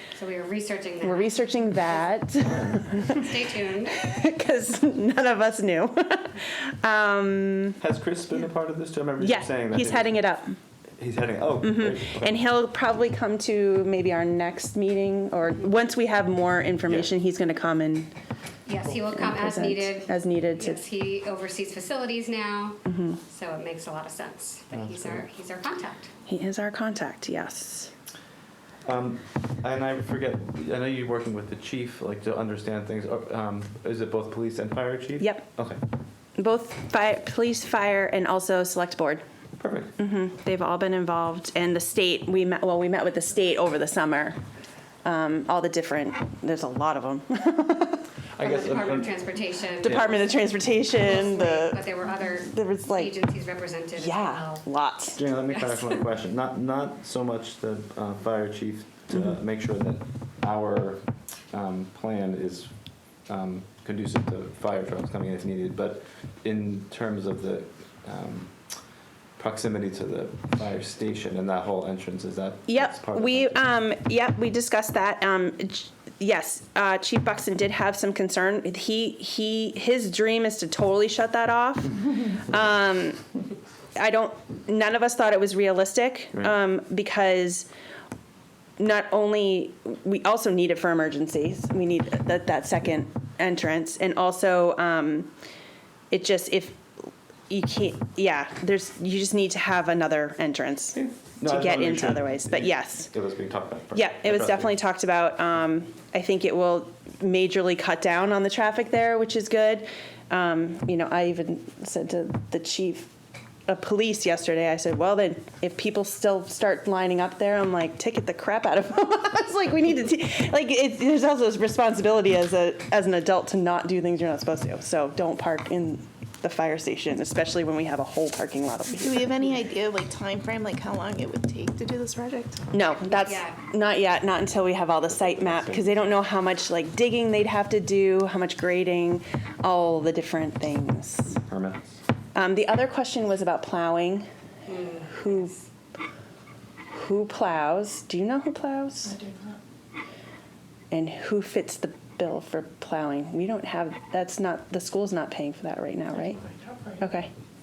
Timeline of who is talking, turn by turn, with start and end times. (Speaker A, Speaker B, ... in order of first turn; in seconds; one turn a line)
Speaker A: 0.1-1.8
Speaker B: 1.0-3.3
Speaker A: 2.9-4.0
Speaker B: 3.9-7.8
Speaker C: 7.8-10.2
Speaker B: 9.2-10.6
Speaker C: 11.0-12.4
Speaker B: 11.6-18.1
Speaker A: 18.6-26.1
Speaker B: 19.0-20.8
Speaker B: 22.9-23.2
Speaker C: 24.7-25.2
Speaker B: 26.3-27.9
Speaker C: 28.8-35.8
Speaker B: 35.2-35.5
Speaker B: 36.4-39.2
Speaker C: 39.6-39.9
Speaker B: 40.0-44.4
Speaker B: 45.0-48.0
Speaker C: 48.4-49.2
Speaker A: 48.4-50.2
Speaker B: 49.8-53.1
Speaker C: 49.8-50.1
Speaker A: 50.9-54.6
Speaker B: 53.9-55.2
Speaker C: 55.1-62.7
Speaker A: 55.5-56.0
Speaker C: 63.3-68.5
Speaker C: 69.4-73.5
Speaker B: 72.7-83.2
Speaker B: 84.0-87.7
Speaker B: 88.8-95.3
Speaker B: 96.1-96.8
Speaker B: 97.5-103.1
Speaker C: 100.9-104.8
Speaker B: 103.9-113.1
Speaker B: 113.7-129.3
Speaker D: 129.0-132.6
Speaker B: 132.7-141.4
Speaker A: 133.1-133.6
Speaker C: 135.1-136.1
Speaker C: 141.4-142.0
Speaker B: 142.3-144.3
Speaker A: 144.7-145.2
Speaker B: 144.9-145.6
Speaker B: 146.9-149.2
Speaker D: 149.2-149.6
Speaker B: 150.9-156.4
Speaker B: 157.0-157.3